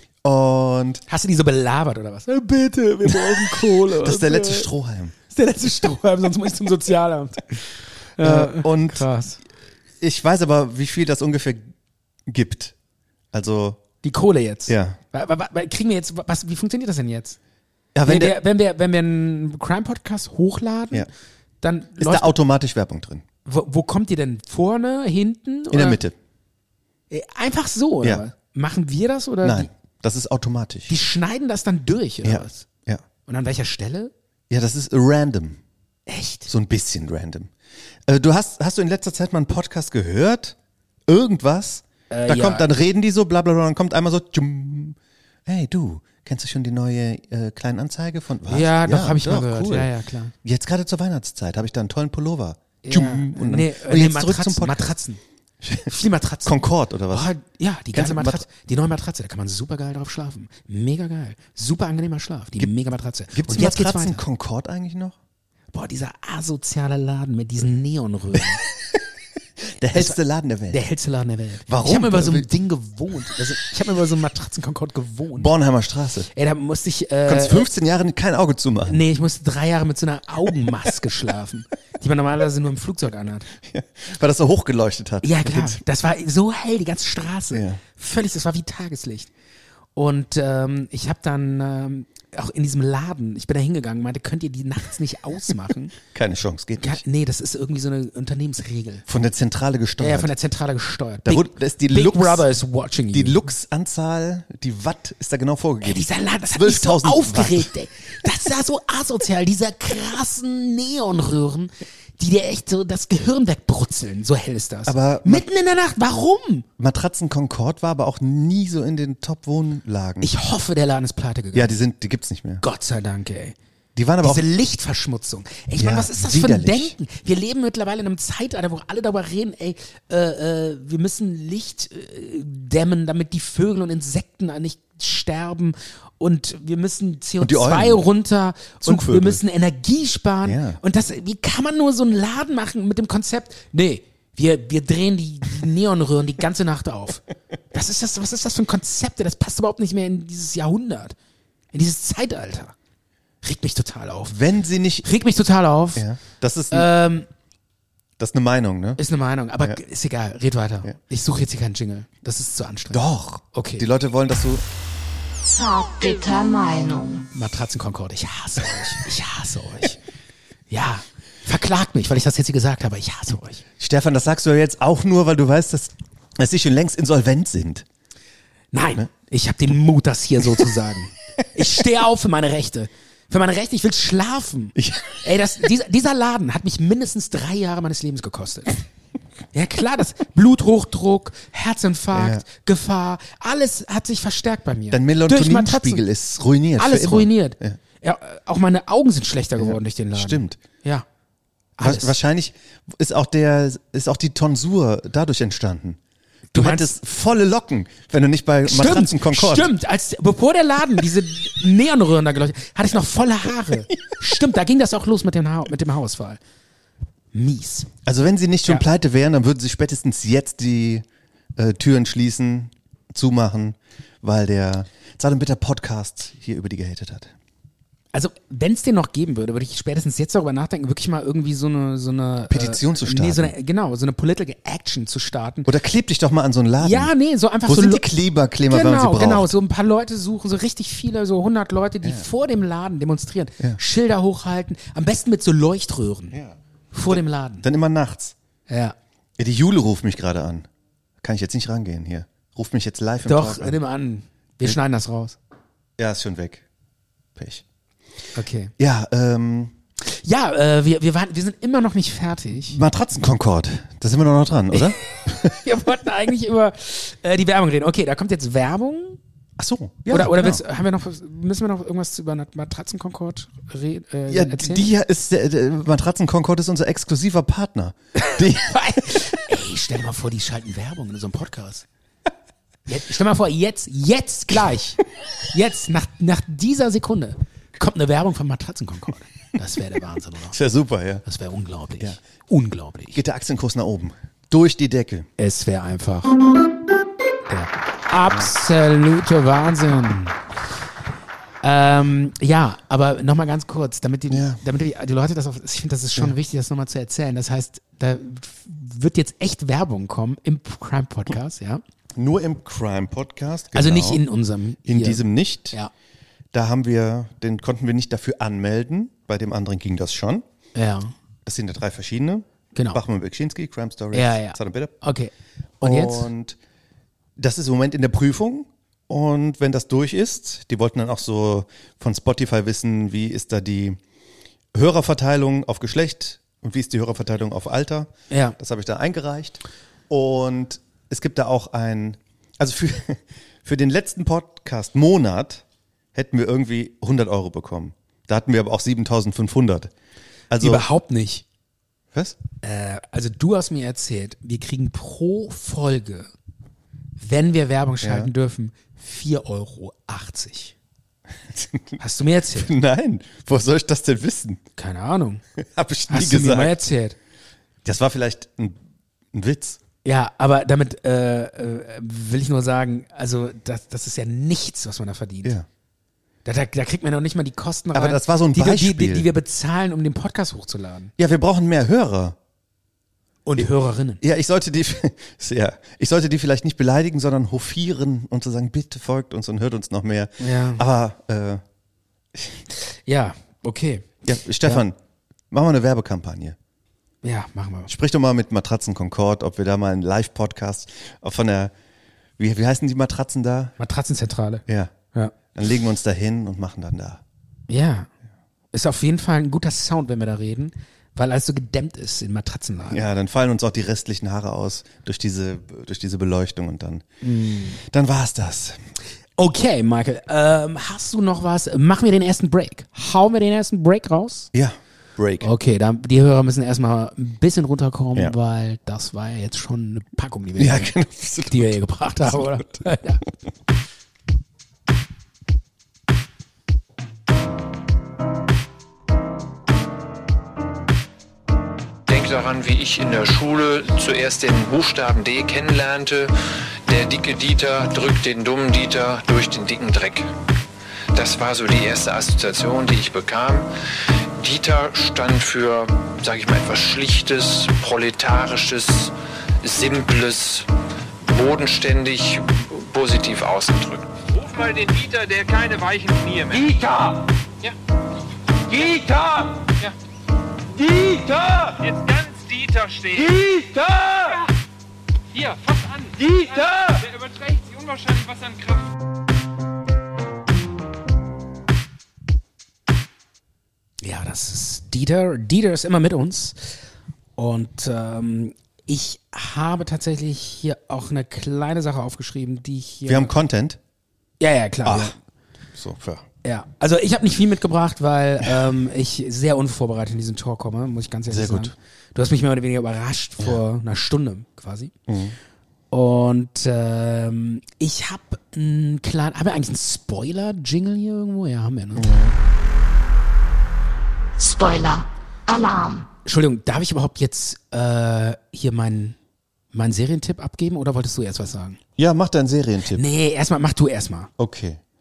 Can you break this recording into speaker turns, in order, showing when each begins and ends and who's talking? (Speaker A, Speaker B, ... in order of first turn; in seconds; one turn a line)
Speaker A: 0.2-1.0
Speaker B: 1.1-4.7
Speaker A: 3.1-5.1
Speaker B: 5.3-9.4
Speaker A: 8.2-9.1
Speaker A: 10.0-11.7
Speaker A: 12.3-12.8
Speaker A: 13.3-13.8
Speaker B: 14.0-17.4
Speaker A: 14.7-15.0
Speaker A: 17.9-18.4
Speaker B: 18.1-21.1
Speaker B: 21.6-22.4
Speaker A: 22.0-23.2
Speaker B: 23.4-26.0
Speaker A: 25.7-26.1
Speaker B: 27.1-29.7
Speaker A: 29.4-30.9
Speaker B: 30.9-32.7
Speaker A: 32.2-33.0
Speaker B: 33.3-34.1
Speaker A: 34.5-35.6
Speaker B: 36.1-36.5
Speaker A: 36.5-37.5
Speaker A: 38.1-40.6
Speaker A: 41.1-49.9
Speaker B: 42.1-42.7
Speaker B: 48.5-50.3
Speaker A: 50.4-55.0
Speaker B: 52.8-55.2
Speaker A: 55.6-55.9
Speaker B: 55.9-64.2
Speaker A: 56.5-57.3
Speaker A: 57.9-58.5
Speaker A: 63.3-65.2
Speaker B: 65.7-68.6
Speaker A: 69.8-70.8
Speaker B: 70.7-75.5
Speaker A: 71.7-72.5
Speaker A: 75.3-76.3
Speaker B: 76.3-77.7
Speaker A: 77.2-79.0
Speaker B: 78.9-83.5
Speaker A: 83.6-85.8
Speaker B: 85.2-89.3
Speaker A: 87.5-87.8
Speaker B: 90.0-95.9
Speaker A: 96.1-97.0
Speaker B: 96.8-99.0
Speaker A: 99.1-100.3
Speaker B: 100.0-103.5
Speaker A: 101.2-102.5
Speaker A: 103.1-107.7
Speaker B: 105.8-116.7
Speaker A: 114.9-115.5
Speaker A: 116.8-120.3
Speaker B: 120.2-121.8
Speaker A: 121.5-122.6
Speaker B: 122.6-123.6
Speaker A: 124.0-124.5
Speaker B: 124.2-151.2
Speaker A: 125.8-126.9
Speaker A: 137.4-138.1
Speaker A: 138.8-139.4
Speaker A: 140.4-140.8
Speaker B: 151.7-152.8
Speaker B: 153.4-154.4
Speaker A: 154.3-155.1
Speaker B: 155.0-156.1
Speaker A: 156.0-156.9
Speaker B: 156.7-157.3
Speaker A: 158.2-159.0
Speaker B: 159.0-163.0
Speaker A: 162.9-164.6
Speaker B: 163.5-163.9
Speaker C: 165.5-167.3
Speaker B: 167.3-170.0
Speaker B: 170.7-173.6
Speaker A: 173.8-177.9
Speaker B: 178.7-188.8
Speaker A: 184.8-185.2
Speaker B: 189.5-196.0
Speaker A: 192.1-192.4
Speaker A: 194.9-197.8
Speaker B: 196.8-201.1
Speaker A: 199.6-200.6
Speaker B: 201.8-202.2
Speaker A: 201.8-206.0
Speaker B: 206.5-206.9
Speaker A: 206.6-209.7
Speaker B: 208.7-216.4
Speaker B: 217.3-217.9
Speaker A: 218.1-221.1
Speaker A: 221.6-227.3
Speaker B: 228.1-235.7
Speaker A: 232.5-233.5
Speaker A: 235.7-237.1
Speaker B: 236.8-238.1
Speaker A: 237.7-239.5
Speaker B: 238.7-246.4
Speaker B: 246.9-247.7
Speaker A: 247.1-248.4
Speaker B: 248.7-248.9
Speaker A: 249.4-250.7
Speaker A: 251.2-253.8
Speaker B: 253.2-255.4
Speaker A: 256.0-256.6
Speaker A: 257.4-257.6
Speaker B: 258.4-258.7
Speaker A: 258.8-259.8
Speaker B: 260.0-262.8
Speaker A: 262.7-265.6
Speaker B: 264.7-269.2
Speaker A: 269.6-270.6
Speaker B: 270.1-274.9
Speaker A: 274.3-279.2
Speaker B: 278.2-281.9
Speaker B: 282.9-290.6
Speaker A: 290.5-291.2
Speaker B: 291.2-293.2
Speaker A: 293.1-295.3
Speaker B: 295.4-296.3
Speaker B: 297.5-300.4
Speaker B: 301.6-311.8
Speaker A: 304.3-304.6
Speaker A: 312.1-314.2
Speaker B: 313.7-315.9
Speaker A: 314.9-315.8
Speaker A: 316.5-320.4
Speaker B: 320.8-321.1
Speaker A: 321.4-325.0
Speaker B: 322.8-323.0
Speaker B: 324.1-326.3
Speaker A: 325.8-326.6
Speaker A: 327.4-334.0
Speaker A: 334.7-349.9
Speaker B: 338.3-338.6
Speaker A: 350.5-350.9
Speaker B: 350.6-351.4
Speaker A: 352.1-352.4
Speaker B: 352.6-356.3
Speaker B: 357.2-360.8
Speaker A: 358.0-358.3
Speaker A: 361.5-362.0
Speaker B: 362.0-362.7
Speaker A: 362.5-364.6
Speaker B: 364.8-365.4
Speaker A: 365.6-366.8
Speaker B: 366.1-367.2
Speaker A: 367.9-368.8
Speaker A: 369.3-369.8
Speaker B: 370.0-375.6
Speaker B: 376.4-381.1
Speaker A: 377.9-379.3
Speaker A: 381.2-382.4
Speaker B: 383.5-384.2
Speaker A: 384.2-391.6
Speaker B: 390.4-390.8
Speaker A: 392.4-392.6
Speaker B: 392.7-394.1
Speaker A: 394.2-395.0
Speaker A: 395.5-396.6
Speaker B: 397.2-397.9
Speaker A: 397.9-401.7
Speaker A: 402.4-403.8
Speaker B: 403.8-405.4
Speaker A: 404.7-404.9
Speaker A: 405.5-407.2
Speaker B: 407.7-408.1
Speaker B: 408.7-413.0
Speaker A: 412.9-417.1
Speaker B: 417.2-417.8
Speaker A: 417.8-418.8
Speaker B: 419.4-424.5
Speaker A: 424.5-425.5
Speaker B: 425.4-430.9
Speaker A: 430.6-432.8
Speaker B: 431.5-433.2
Speaker D: 442.1-446.3
Speaker D: 446.9-450.3
Speaker D: 451.1-460.7
Speaker D: 461.2-464.3
Speaker E: 464.5-466.5
Speaker D: 468.7-469.4
Speaker D: 471.8-472.1
Speaker D: 473.1-474.2
Speaker D: 476.2-477.0
Speaker B: 484.0-486.8
Speaker B: 487.4-493.4
Speaker A: 493.1-493.8
Speaker B: 494.4-495.1
Speaker A: 494.9-495.1
Speaker A: 495.8-496.2
Speaker B: 496.4-504.9
Speaker A: 501.3-501.8
Speaker A: 505.1-505.4
Speaker B: 505.9-512.1
Speaker A: 512.0-512.4
Speaker C: 514.4-516.1
Speaker B: 516.2-519.2
Speaker B: 519.7-521.8
Speaker A: 522.0-523.0
Speaker B: 522.9-524.3
Speaker A: 524.4-524.8